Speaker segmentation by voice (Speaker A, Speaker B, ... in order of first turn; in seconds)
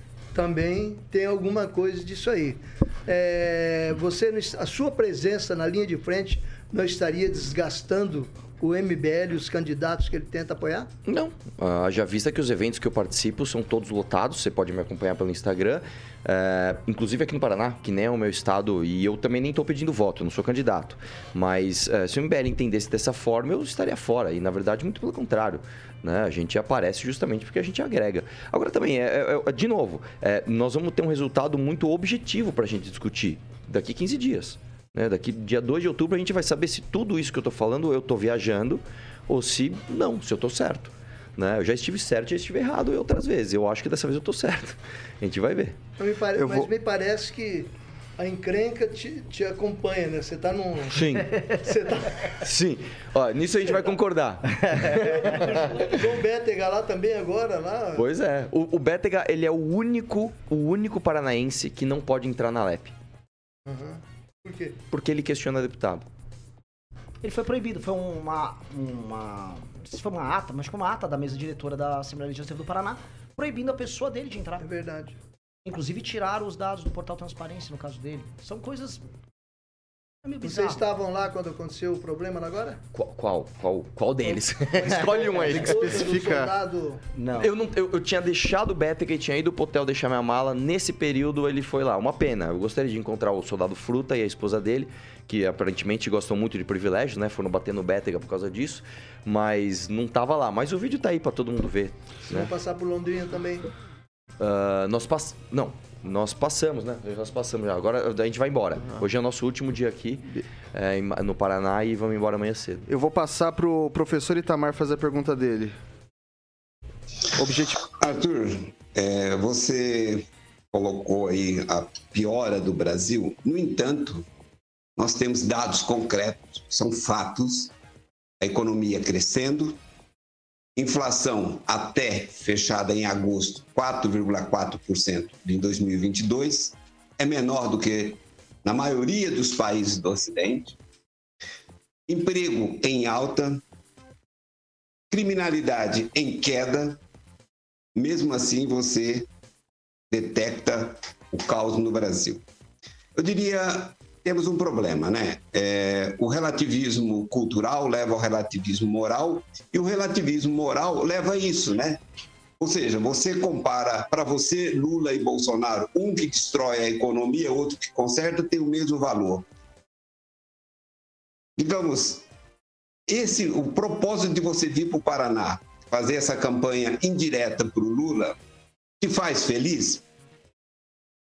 Speaker A: 0.3-10.9, 46.0-52.4, 54.8-58.0, 63.6-64.8, 74.6-75.2, 80.4-82.8, 84.8-87.0, 102.3-103.7
Speaker B: 11.1-45.8, 50.9-51.7, 52.4-55.9, 57.9-62.9, 64.9-66.0, 82.9-86.3, 87.3-102.5, 104.4-112.9
Speaker C: 46.3-46.7, 85.4-86.5, 112.9-115.8, 117.3-117.8
Speaker D: 67.2-74.7, 75.6-79.0, 80.2-80.8, 87.2-87.5
Speaker E: 117.9-124.2, 125.0-127.7, 128.4-129.8, 130.8-140.8, 142.1-143.6, 145.1-147.0, 147.9-149.3, 150.1-152.4, 153.2-162.0, 162.6-169.4, 171.6-172.2, 173.1-178.3, 179.0-180.0